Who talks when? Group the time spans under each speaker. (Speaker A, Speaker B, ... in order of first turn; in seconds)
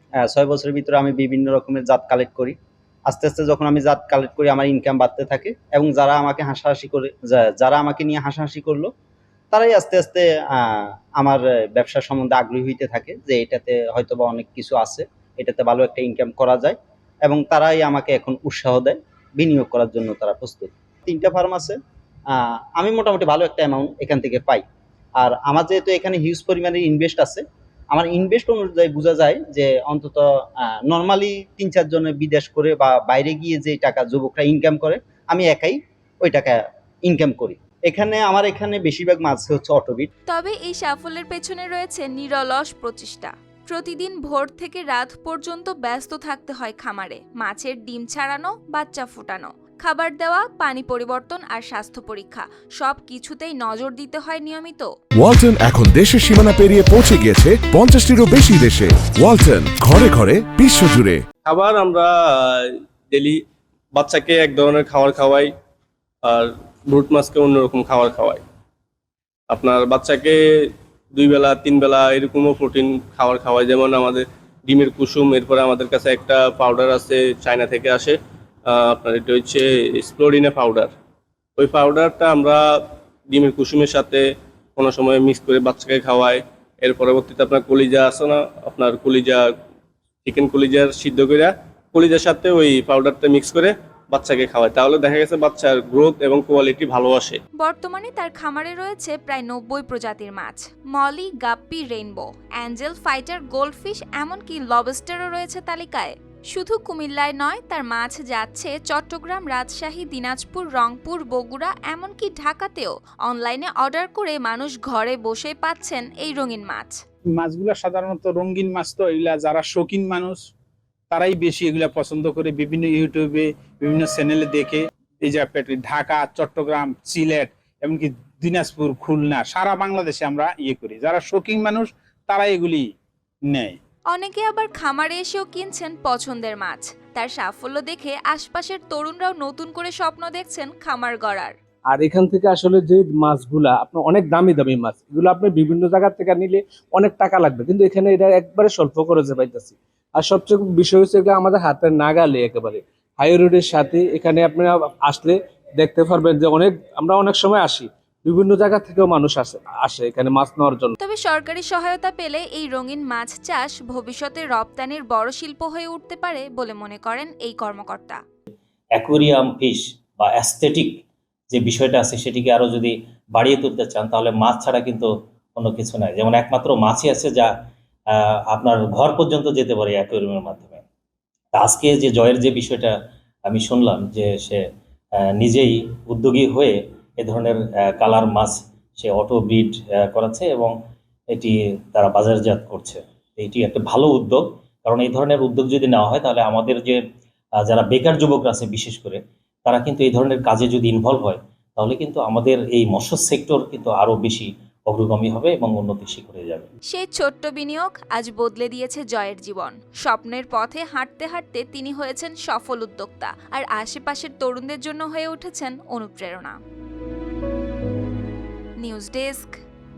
Speaker A: 0.2-2.5, 3.1-8.9, 9.5-21.8, 22.3-24.6, 25.2-40.1
Speaker B: 40.3-54.9, 97.6-117.0, 134.1-141.5, 161.0-168.2, 206.9-216.6, 218.8-219.6
Speaker C: 55.2-61.1
Speaker D: 61.5-63.4, 63.9-65.5, 66.2-68.4, 69.5-70.4, 71.1-78.2, 78.7-80.9, 81.6-82.6, 83.3-84.2, 84.8-89.4, 90.2-97.4
Speaker E: 117.3-120.5, 121.1-132.9, 133.5-133.8
Speaker F: 141.9-160.9
Speaker G: 168.9-177.5, 178.1-180.8, 181.5-182.9, 183.5-184.6, 185.2-190.7, 191.3-197.0, 197.6-206.7